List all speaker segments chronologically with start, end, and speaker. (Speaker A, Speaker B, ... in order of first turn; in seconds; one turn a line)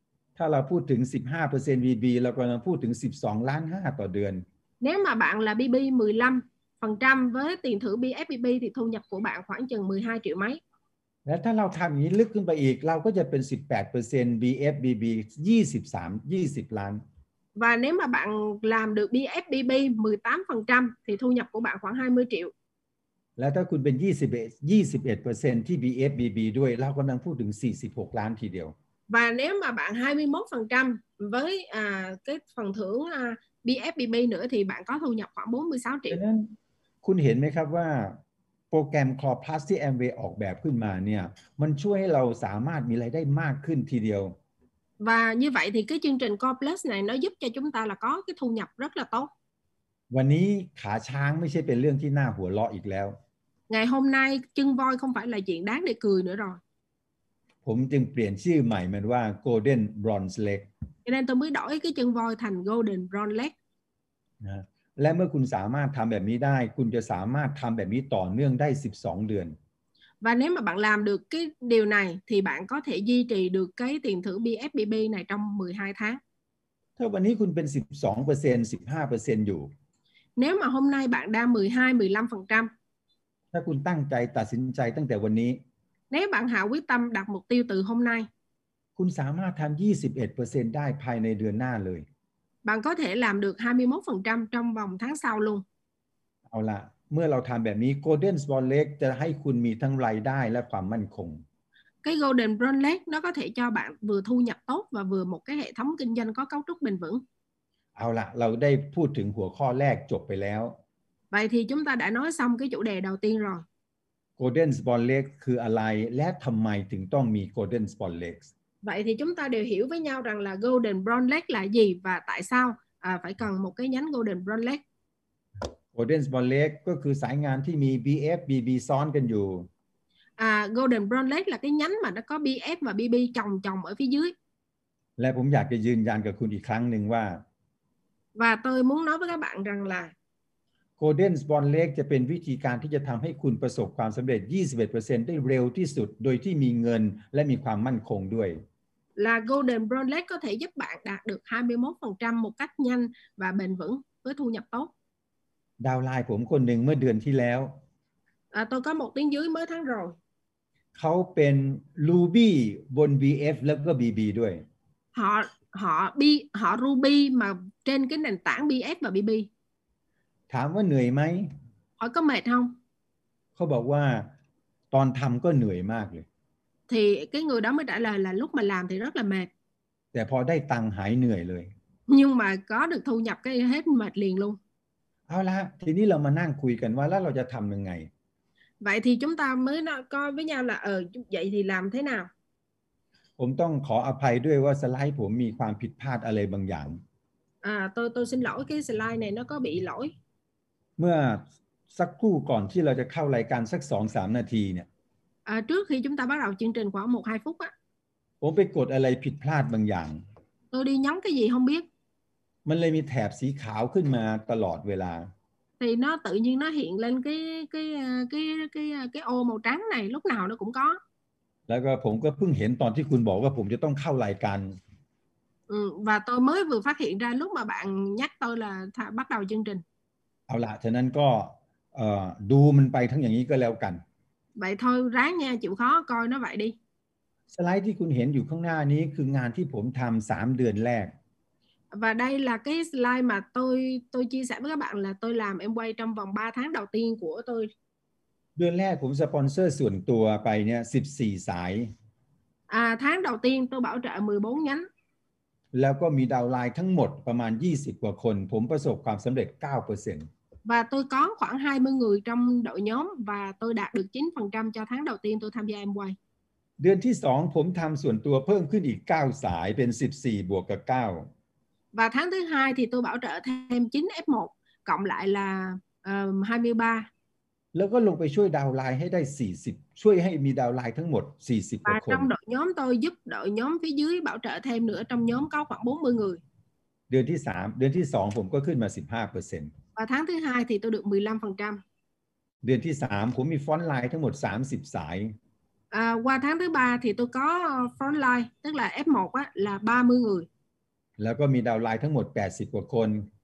Speaker A: 0.3-4.4
Speaker B: 4.8-10.6
Speaker A: 11.2-17.0
Speaker B: 17.6-22.5
Speaker A: 23.4-28.7
Speaker B: 29.1-36.2
Speaker A: 36.1-38.2
Speaker A: 38.7-44.4
Speaker B: 45.0-49.3
Speaker A: 50.1-53.1
Speaker B: 53.7-56.6
Speaker A: 57.6-60.7
Speaker B: 61.0-63.5
Speaker A: 64.4-69.5
Speaker B: 70.2-76.2
Speaker A: 77.0-79.7
Speaker B: 80.4-82.7
Speaker A: 83.5-85.6
Speaker B: 86.1-88.3
Speaker A: 89.0-92.0
Speaker B: 92.6-95.6
Speaker A: 96.5-101.4
Speaker B: 102.0-107.2
Speaker A: 108.0-110.8
Speaker B: 111.3-113.6
Speaker A: 114.4-118.5
Speaker B: 118.8-124.8
Speaker A: 125.9-129.7
Speaker B: 130.4-134.3
Speaker A: 135.2-137.4
Speaker B: 138.3-140.1
Speaker A: 141.0-148.6
Speaker B: 149.2-154.9
Speaker A: 155.8-157.8
Speaker B: 158.5-160.2
Speaker A: 160.9-164.6
Speaker B: 165.1-169.5
Speaker A: 170.5-171.5
Speaker B: 172.0-172.7
Speaker A: 173.6-174.3
Speaker A: 174.9-176.2
Speaker B: 176.9-179.5
Speaker A: 180.1-181.7
Speaker B: 182.1-184.6
Speaker A: 185.3-188.1
Speaker B: 188.8-192.3
Speaker A: 193.4-197.0
Speaker B: 197.6-200.1
Speaker A: 201.0-204.9
Speaker B: 205.4-207.7
Speaker A: 208.4-210.2
Speaker B: 210.7-211.8
Speaker A: 212.6-215.3
Speaker B: 215.8-221.0
Speaker A: 221.7-224.7
Speaker B: 225.7-229.8
Speaker A: 230.5-234.0
Speaker B: 234.6-236.7
Speaker A: 237.5-241.1
Speaker B: 241.9-247.7
Speaker A: 248.6-251.9
Speaker B: 252.7-254.9
Speaker A: 255.7-260.3
Speaker B: 260.6-266.1
Speaker A: 266.8-271.3
Speaker B: 271.9-277.1
Speaker A: 277.7-282.3
Speaker B: 281.9-286.4
Speaker A: 287.1-289.7
Speaker B: 289.9-291.8
Speaker A: 292.6-295.3
Speaker B: 295.9-300.5
Speaker A: 301.2-303.3